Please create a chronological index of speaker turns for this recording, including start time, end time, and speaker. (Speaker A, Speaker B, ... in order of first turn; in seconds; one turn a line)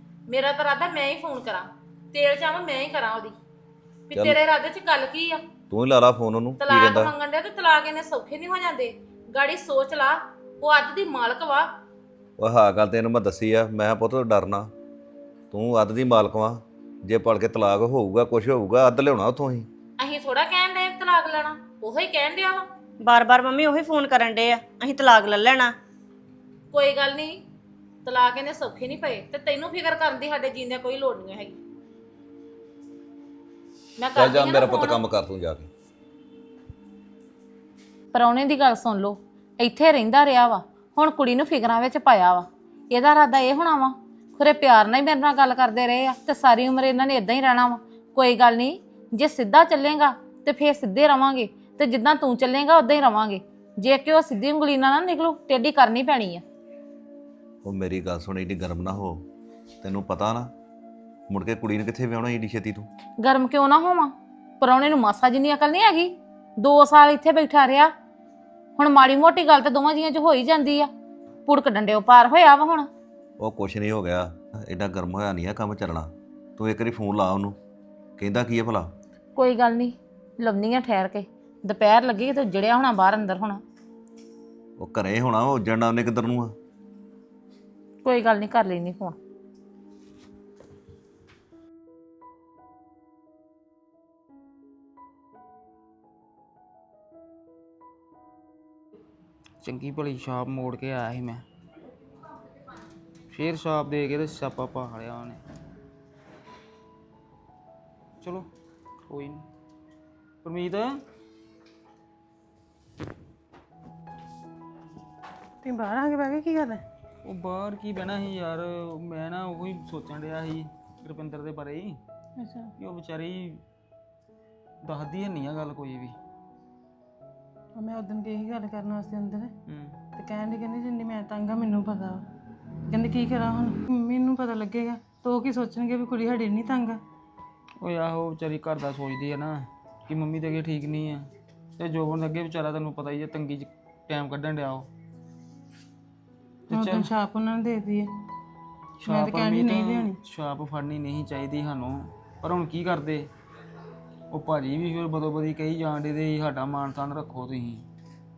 Speaker A: 0.3-3.4
Speaker A: 4.1-5.4
Speaker B: 4.1-4.4
Speaker B: 5.7-7.1
Speaker A: 6.6-11.7
Speaker B: 12.4-14.7
Speaker B: 15.5-19.7
Speaker A: 20.0-22.7
Speaker C: 23.0-25.8
Speaker A: 26.7-27.4
Speaker A: 28.1-31.6
Speaker A: 34.0-35.0
Speaker B: 34.2-35.7
Speaker A: 38.1-56.4
Speaker B: 57.6-59.2
Speaker B: 59.8-60.5
Speaker B: 61.3-62.9
Speaker A: 63.2-67.9
Speaker A: 68.8-70.9
Speaker A: 71.5-72.9
Speaker B: 73.4-77.6
Speaker B: 78.2-78.9
Speaker A: 79.4-83.6
Speaker B: 84.8-86.5
Speaker A: 88.0-89.2
Speaker D: 99.6-101.5
Speaker D: 103.3-105.4
Speaker D: 108.2-108.5
Speaker D: 109.1-109.5
Speaker D: 110.4-111.0
Speaker E: 115.6-116.8
Speaker D: 117.2-122.0
Speaker E: 122.4-122.7
Speaker D: 122.8-123.6
Speaker D: 124.8-126.2
Speaker E: 127.8-129.5
Speaker D: 129.7-130.0
Speaker E: 130.2-132.2
Speaker E: 132.9-137.0
Speaker D: 137.8-144.9
Speaker D: 146.7-147.2
Speaker E: 146.7-148.1
Speaker D: 149.0-153.3
Speaker E: 149.1-150.2
Speaker D: 154.3-157.9